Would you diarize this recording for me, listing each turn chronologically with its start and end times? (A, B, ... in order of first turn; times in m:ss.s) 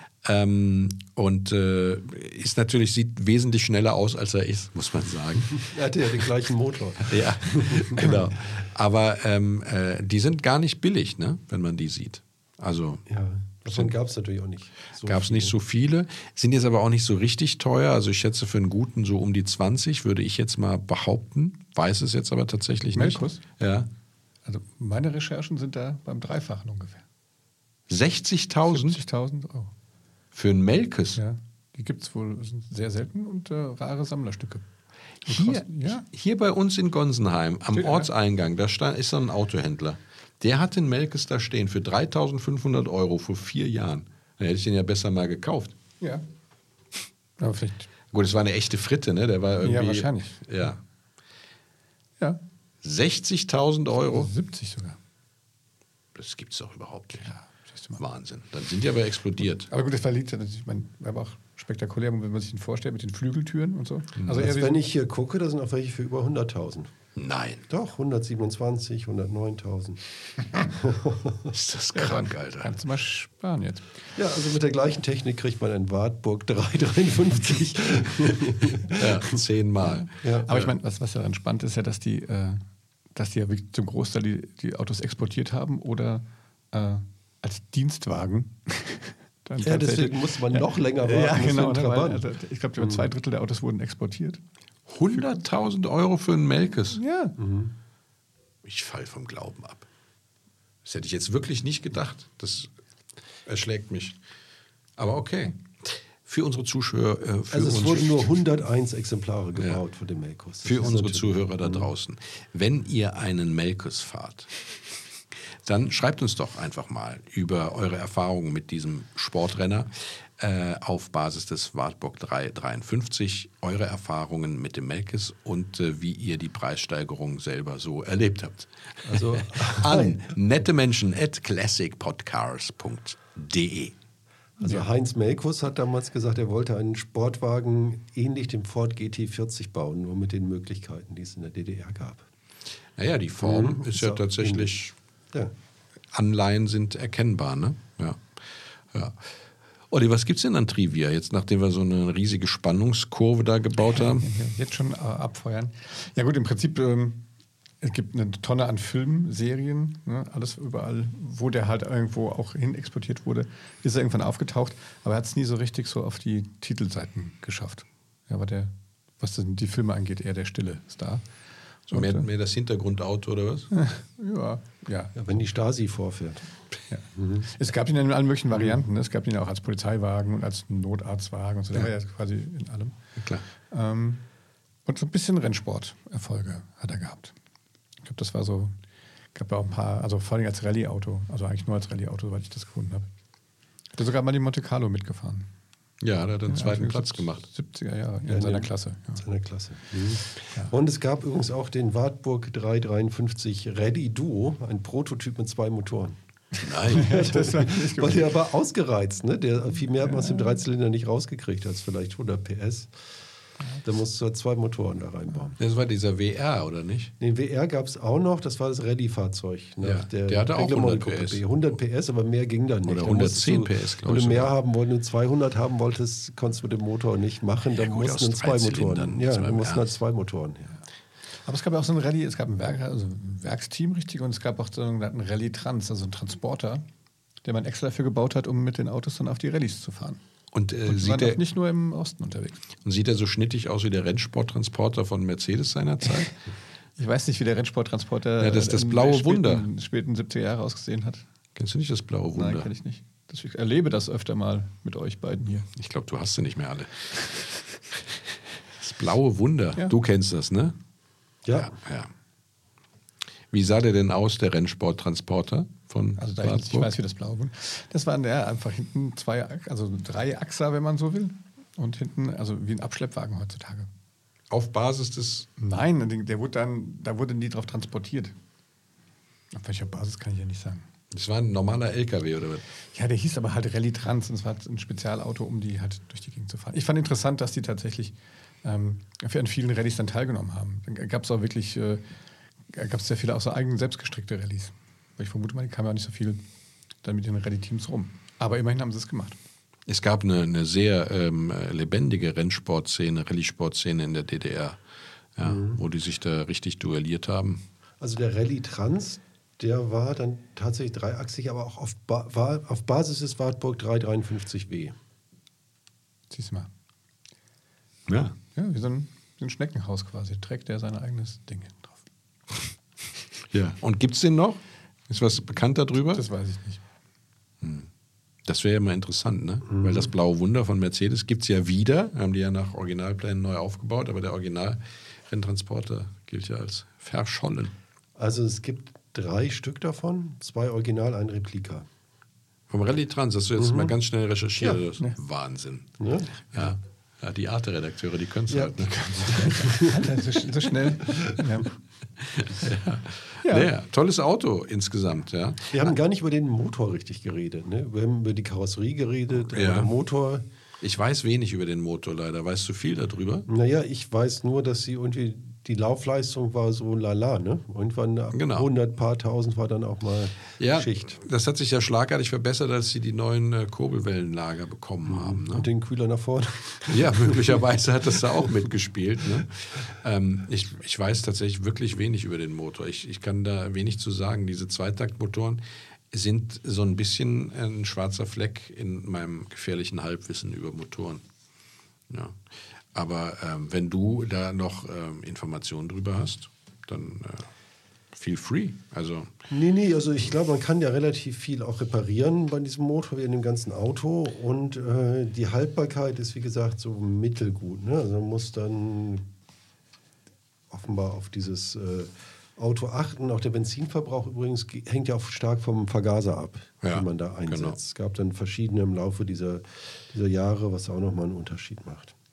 0:00.2-0:05.7 A
0:05.6-0:08.1 B
0:07.0-0:13.0 A
0:13.1-0:15.6 B
0:13.7-0:13.9 A
0:15.1-0:23.9 A
0:22.9-0:23.4 C
0:24.5-0:27.0 C
0:27.9-0:29.0 A
0:28.7-0:29.7 C
0:30.3-0:31.2 A
0:31.2-0:34.6 C
0:35.2-0:45.8 A
0:35.3-0:36.0 C
0:37.7-0:38.1 C
0:47.4-0:47.9 C
0:48.1-0:50.8 A
0:49.6-0:50.4 C
0:52.8-0:54.3 A
0:54.0-0:55.0 C
0:56.2-0:57.3 A
0:57.2-0:58.0 C
0:58.0-0:59.7 A
0:59.7-1:04.8 C
1:04.2-1:04.4 A
1:04.4-1:06.9 B
1:07.2-1:07.6 A
1:07.7-1:10.0 B
1:10.6-1:11.6 B
1:11.5-1:12.8 A
1:11.9-1:14.0 C
1:14.2-1:19.4 B
1:19.0-1:20.7 A
1:20.2-1:20.5 B
1:20.5-1:22.6 C
1:23.2-1:34.4 C
1:29.6-1:32.3 B
1:32.8-1:33.1 B
1:34.9-1:37.0 A
1:36.9-1:37.4 C
1:37.4-1:37.7 B
1:38.6-1:39.9 A
1:40.8-1:42.7 A
1:43.5-1:44.2 A
1:45.0-1:48.4 A
1:47.5-1:51.9 B
1:50.6-1:54.8 A
1:55.6-2:13.9 A
2:09.0-2:10.2 B
2:14.6-2:22.3 B
2:23.0-2:24.9 A
2:23.4-2:24.7 B
2:26.1-2:28.2 A
2:28.9-2:29.2 A
2:29.9-2:34.3 A
2:33.8-2:37.2 C
2:37.8-2:51.2 C
2:51.9-2:52.3 C
2:51.9-2:53.7 A
2:53.7-2:55.2 C
2:55.2-2:56.5 B
2:56.9-3:03.0 C
2:57.2-2:57.5 B
3:03.2-3:03.4 A
3:03.7-3:04.2 C
3:04.9-3:07.4 C
3:08.0-3:08.7 C
3:09.3-3:13.1 C
3:14.0-3:15.5 C
3:16.0-3:17.5 A
3:16.5-3:19.2 C
3:18.3-3:26.2 B
3:26.6-3:28.3 C
3:26.6-3:27.2 A
3:26.9-3:33.0 B
3:30.1-3:30.4 C
3:33.8-3:35.6 B
3:35.6-3:37.1 A
3:37.2-3:50.8 B
3:39.8-3:41.4 A
3:42.8-3:44.5 A
3:47.7-3:49.9 A
3:51.5-3:56.8 C
3:57.4-4:00.2 C
4:00.5-4:01.4 A
4:00.9-4:02.6 C
4:02.8-4:06.4 A
4:07.0-4:11.2 C
4:08.4-4:09.6 A
4:11.6-4:12.7 A
4:12.3-4:15.7 C
4:15.7-4:18.2 A
4:18.8-4:20.8 A
4:21.4-4:21.7 B
4:21.5-4:22.1 A
4:23.5-4:26.9 A
4:26.2-4:33.9 C
4:34.5-4:35.5 A
4:35.6-4:38.3 C
4:39.5-4:40.9 C
4:41.1-4:42.6 A
4:42.9-4:52.0 C
4:52.7-4:56.4 C
4:57.0-4:59.4 C
4:59.9-5:04.8 A
5:05.4-5:07.6 A
5:05.4-5:05.8 B
5:08.0-5:14.9 B
5:16.3-5:16.7 C
5:18.1-5:18.4 A
5:18.6-5:22.0 C
5:23.5-5:26.2 A
5:26.1-5:26.8 C
5:27.6-5:27.9 A
5:28.5-5:37.7 A
5:29.7-5:30.1 B
5:38.2-5:41.9 B
5:42.7-5:46.0 A
5:43.6-5:44.0 B
5:46.0-5:46.5 B
5:46.5-5:49.6 A
5:48.5-5:50.0 B
5:48.9-5:51.7 C
5:52.2-5:55.9 A
5:53.4-5:53.7 C
5:55.7-6:00.4 B
5:59.5-5:59.9 A
6:00.8-6:03.5 A
6:03.5-6:11.2 B
6:08.3-6:08.7 A
6:10.6-6:15.7 A
6:15.1-6:17.6 B
6:16.9-6:31.2 A
6:32.1-6:32.4 A
6:32.9-6:37.5 A
6:38.1-6:39.3 A
6:39.5-6:49.2 B
6:50.7-7:02.2 B
6:56.8-6:57.8 A